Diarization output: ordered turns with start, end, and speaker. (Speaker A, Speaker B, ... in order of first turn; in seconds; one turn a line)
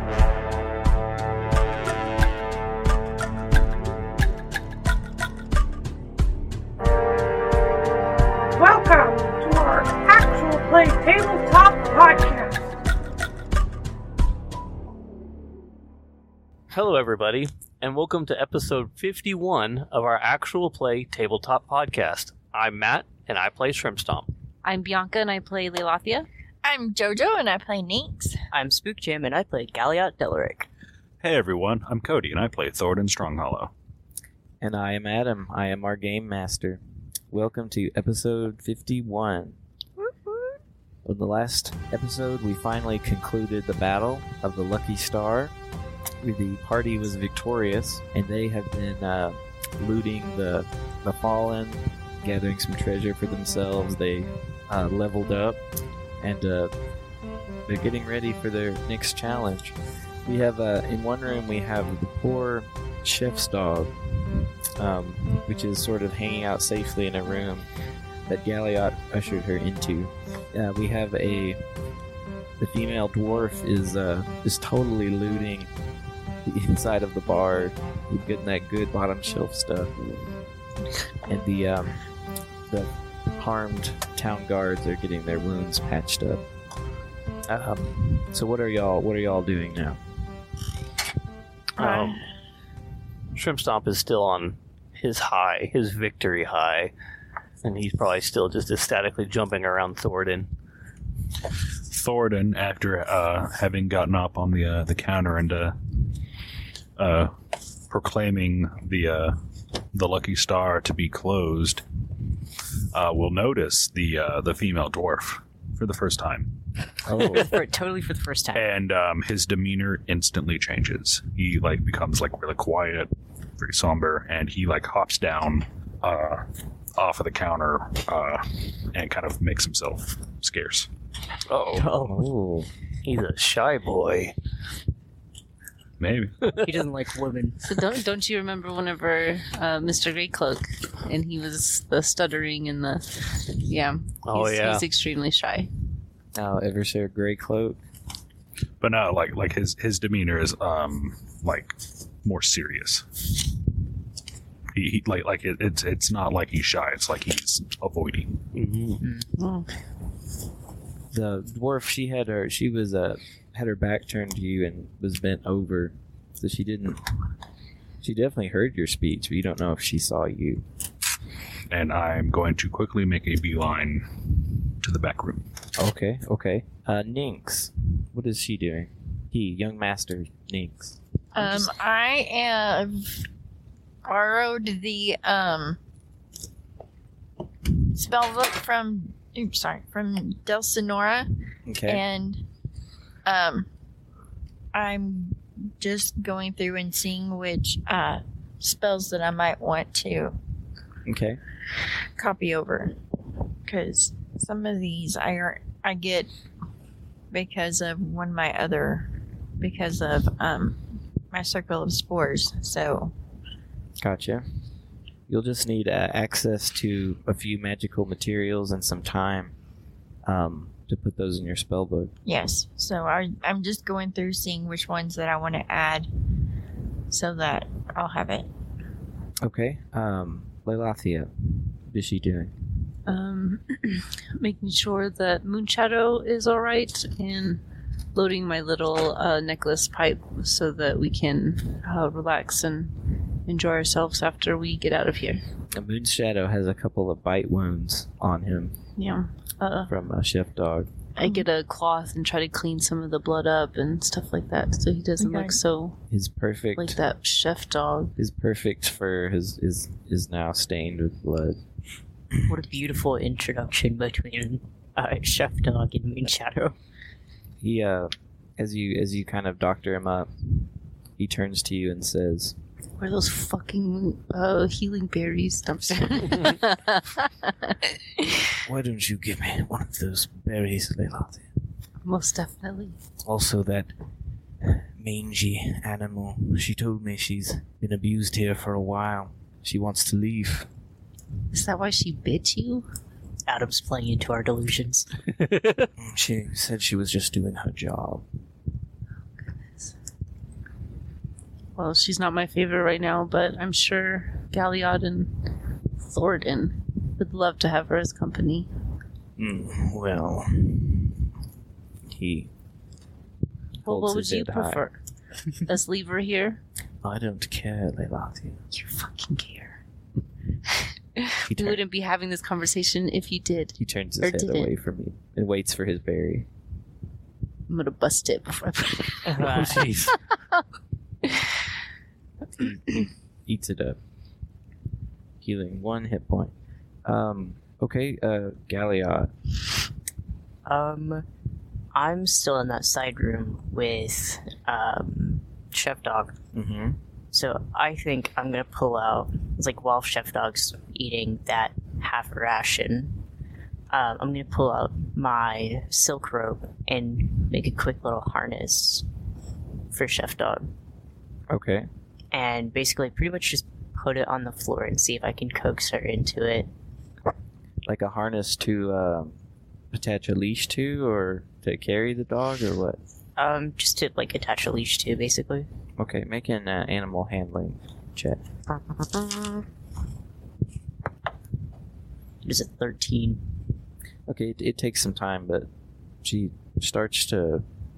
Speaker A: 8.6-12.6
Speaker B: 16.7-24.3
Speaker C: 24.6-26.3
Speaker D: 26.6-28.4
Speaker E: 28.5-30.7
Speaker F: 31.2-33.7
Speaker G: 34.6-39.6
Speaker D: 40.0-40.5
Speaker G: 41.0-45.5
Speaker G: 46.2-55.6
Speaker G: 56.2-56.7
Speaker G: 57.7-64.0
Speaker G: 64.8-67.7
Speaker G: 68.3-71.6
Speaker G: 72.6-75.7
Speaker G: 76.4-79.9
Speaker G: 81.2-82.0
Speaker G: 82.7-86.4
Speaker G: 87.5-90.0
Speaker B: 91.8-92.2
Speaker D: 91.8-92.2
Speaker B: 93.3-96.9
Speaker B: 97.6-100.5
Speaker F: 101.9-105.8
Speaker F: 107.0-107.3
Speaker F: 107.9-109.4
Speaker F: 109.9-111.8
Speaker F: 112.9-116.6
Speaker G: 117.1-117.5
Speaker E: 117.1-118.6
Speaker F: 118.5-130.9
Speaker B: 131.5-131.9
Speaker E: 131.8-132.1
Speaker G: 131.8-132.7
Speaker B: 133.0-134.3
Speaker F: 136.0-136.5
Speaker E: 136.5-137.7
Speaker C: 137.7-145.7
Speaker B: 144.2-144.8
Speaker G: 146.3-147.8
Speaker F: 148.8-153.2
Speaker F: 154.7-158.5
Speaker B: 158.5-159.0
Speaker E: 159.0-159.3
Speaker C: 159.4-159.7
Speaker G: 161.1-167.0
Speaker G: 168.0-170.6
Speaker F: 171.7-175.4
Speaker G: 175.8-181.0
Speaker D: 181.3-183.2
Speaker D: 184.0-185.8
Speaker D: 187.6-191.3
Speaker G: 191.7-192.0
Speaker D: 191.8-192.4
Speaker D: 193.2-193.7
Speaker D: 194.7-200.3
Speaker G: 201.0-201.4
Speaker D: 202.2-203.0
Speaker D: 203.6-206.3
Speaker D: 207.3-213.1
Speaker G: 214.0-214.4
Speaker G: 215.3-219.5
Speaker G: 220.2-222.1
Speaker D: 222.2-226.1
Speaker D: 227.1-228.5
Speaker G: 229.4-232.5
Speaker C: 233.1-237.6
Speaker C: 238.1-245.4
Speaker G: 245.7-248.8
Speaker C: 249.0-249.9
Speaker G: 249.9-250.9
Speaker C: 251.2-256.0
Speaker D: 255.2-255.6
Speaker G: 256.1-257.0
Speaker C: 256.8-258.1
Speaker G: 258.2-261.6
Speaker E: 262.4-266.8
Speaker G: 267.6-270.6
Speaker G: 271.2-272.6
Speaker C: 273.0-278.3
Speaker G: 278.6-281.4
Speaker C: 282.0-282.9
Speaker G: 283.2-283.9
Speaker G: 284.6-290.7
Speaker C: 291.5-292.9
Speaker E: 293.5-295.1
Speaker G: 296.0-298.2
Speaker C: 301.8-308.7
Speaker G: 309.4-311.3
Speaker G: 312.1-312.5
Speaker C: 313.8-315.0
Speaker G: 313.9-314.9
Speaker C: 315.6-316.6
Speaker G: 317.0-318.6
Speaker C: 318.7-319.8
Speaker C: 321.1-324.7
Speaker G: 321.5-321.8
Speaker G: 323.8-326.5
Speaker C: 327.7-330.1
Speaker E: 329.2-330.0
Speaker B: 329.4-330.1
Speaker G: 332.6-334.0
Speaker G: 335.4-336.5
Speaker G: 337.1-339.3
Speaker E: 340.6-341.2
Speaker E: 341.9-346.4
Speaker G: 346.5-347.0
Speaker E: 347.3-353.2
Speaker E: 353.9-359.1
Speaker E: 359.9-360.7
Speaker G: 361.5-361.9
Speaker E: 362.3-366.7
Speaker G: 367.8-369.3
Speaker G: 369.9-373.0
Speaker E: 373.4-375.7
Speaker G: 376.0-378.4
Speaker E: 382.4-383.5
Speaker G: 384.3-385.7
Speaker G: 386.2-387.6